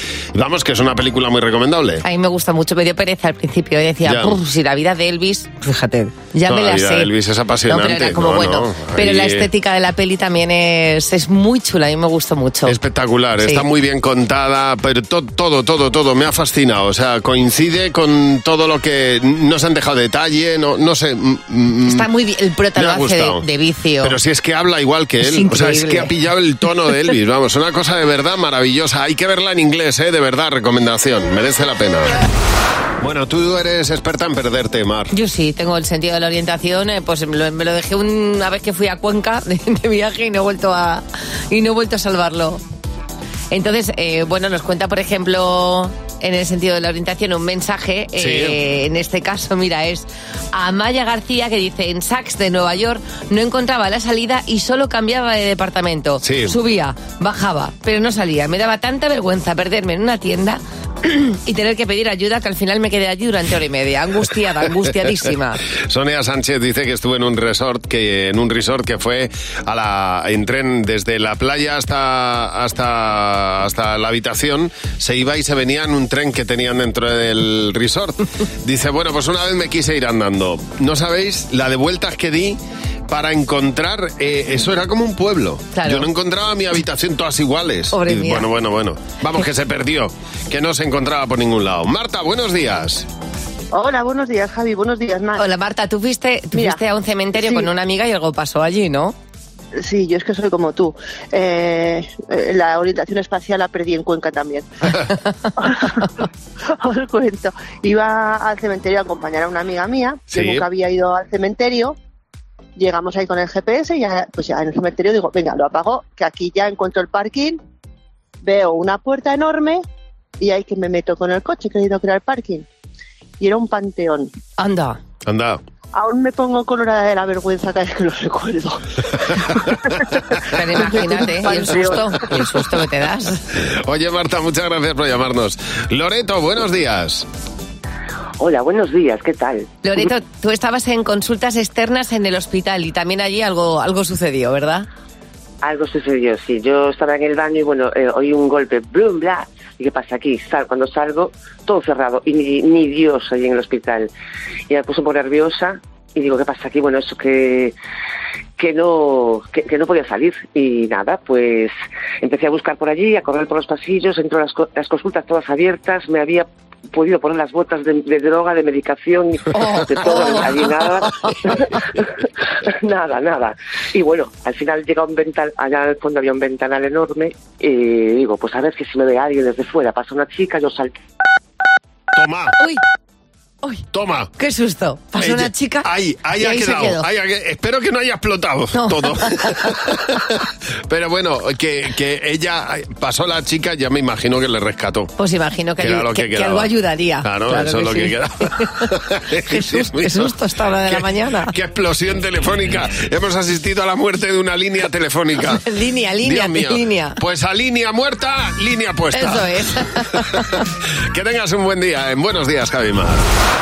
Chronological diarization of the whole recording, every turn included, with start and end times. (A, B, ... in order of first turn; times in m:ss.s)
0:00.3-0:02.0 A
0:02.0-0:07.1 B
0:04.0-0:04.4 A
0:06.5-0:09.5 A
0:07.7-0:12.8 B
0:12.6-0:22.1 A
0:21.9-0:24.2 B
0:22.8-0:23.4 A
0:24.0-0:32.2 A
0:25.2-0:26.1 B
0:33.0-0:35.1 A
0:35.1-0:42.6 B
0:43.5-1:05.6 B
0:48.2-0:48.6 A
0:56.2-0:56.6 A
1:05.8-1:33.0 A
1:25.7-1:26.1 B
1:27.9-1:28.5 B
1:33.7-1:35.4 C
1:35.4-1:39.1 B
1:36.5-1:36.8 C
1:37.3-1:37.7 C
1:39.7-1:44.7 C
1:45.6-1:52.0 C
1:50.3-1:50.6 A
1:52.8-1:57.6 C
1:58.4-1:59.8 C
2:00.4-2:02.6 C
2:03.4-2:04.3 C
2:04.6-2:05.0 B
2:05.2-2:05.6 A
2:05.9-2:12.2 C
2:10.5-2:13.4 B
2:13.5-2:17.2 A
2:18.4-2:19.7 D
2:19.8-2:24.9 B
2:25.6-2:34.1 D
2:34.7-2:37.7 D
2:38.6-2:52.0 D
2:49.5-2:50.5 B
2:52.6-3:01.0 D
3:02.1-3:02.6 A
3:03.9-3:04.3 A
3:04.4-3:05.9 B
3:05.2-3:10.3 A
3:06.4-3:07.0 B
3:08.7-3:09.7 B
3:10.9-3:15.1 A
3:15.2-3:18.8 B
3:15.8-3:16.7 A
3:17.2-3:20.3 A
3:19.4-3:21.5 B
3:20.9-3:25.6 A
3:25.6-3:27.2 B
3:26.2-3:29.5 A
3:29.1-3:30.4 B
3:31.1-3:33.2 A